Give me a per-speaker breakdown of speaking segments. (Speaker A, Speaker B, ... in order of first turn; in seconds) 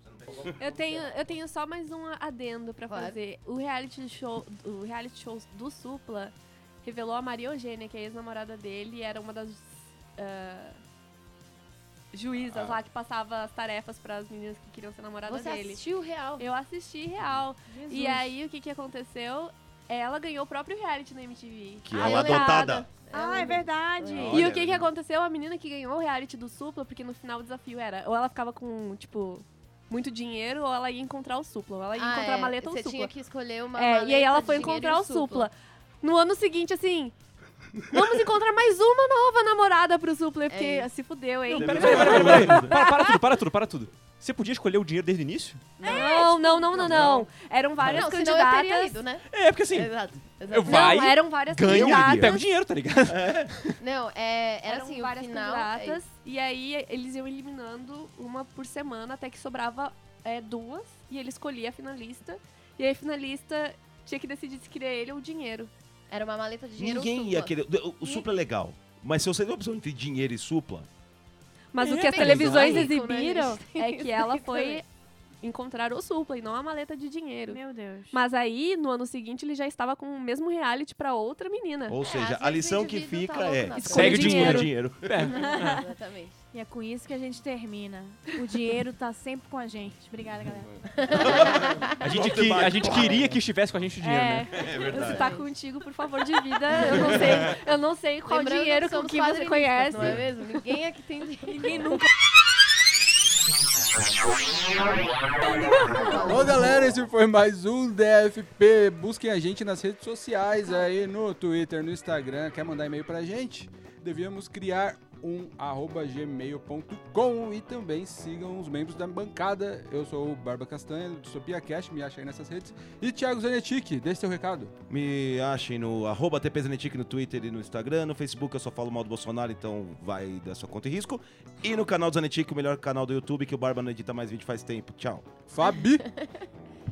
Speaker A: 0.6-10.8, 12.1-15.8, 16.4-22.9, 24.3-33.1, 33.7-37.1, 37.9-43.2, 45.8-49.0, 50.6-52.4, 54.7-65.7, 71.7-74.8, 75.4-82.0, 83.7-84.7, 94.0-100.3
Speaker B: 2.9-3.2, 15.2-16.5, 21.9-24.4, 31.9-35.5, 40.5-40.9, 45.8-47.0, 47.8-51.0, 53.8-56.0, 66.1-67.5, 72.1-74.8, 82.0-84.3, 85.2-86.4, 90.9-92.0, 94.8-95.5, 96.7-97.5, 98.2-101.8, 105.7-106.9, 135.6-136.5
Speaker C: 12.4-12.8, 21.8-22.9, 24.1-24.9, 41.5-42.7, 51.6-52.4, 53.1-53.5, 66.8-70.9, 81.9-85.2, 91.1-93.4, 94.5-95.2, 124.9-135.3
Speaker D: 17.7-18.3, 23.1-24.4, 45.8-46.3, 71.9-72.5, 77.5-78.2, 85.4-85.8, 86.5-90.8, 94.2-94.6, 101.5-102.1, 105.4-106.3
Speaker E: 41.5-45.7, 46.9-47.2, 47.8-48.0, 49.3-49.9, 50.5-53.8, 72.2-72.8, 83.9-85.8, 92.0-94.5
Speaker F: 106.2-124.7, 135.5-136.1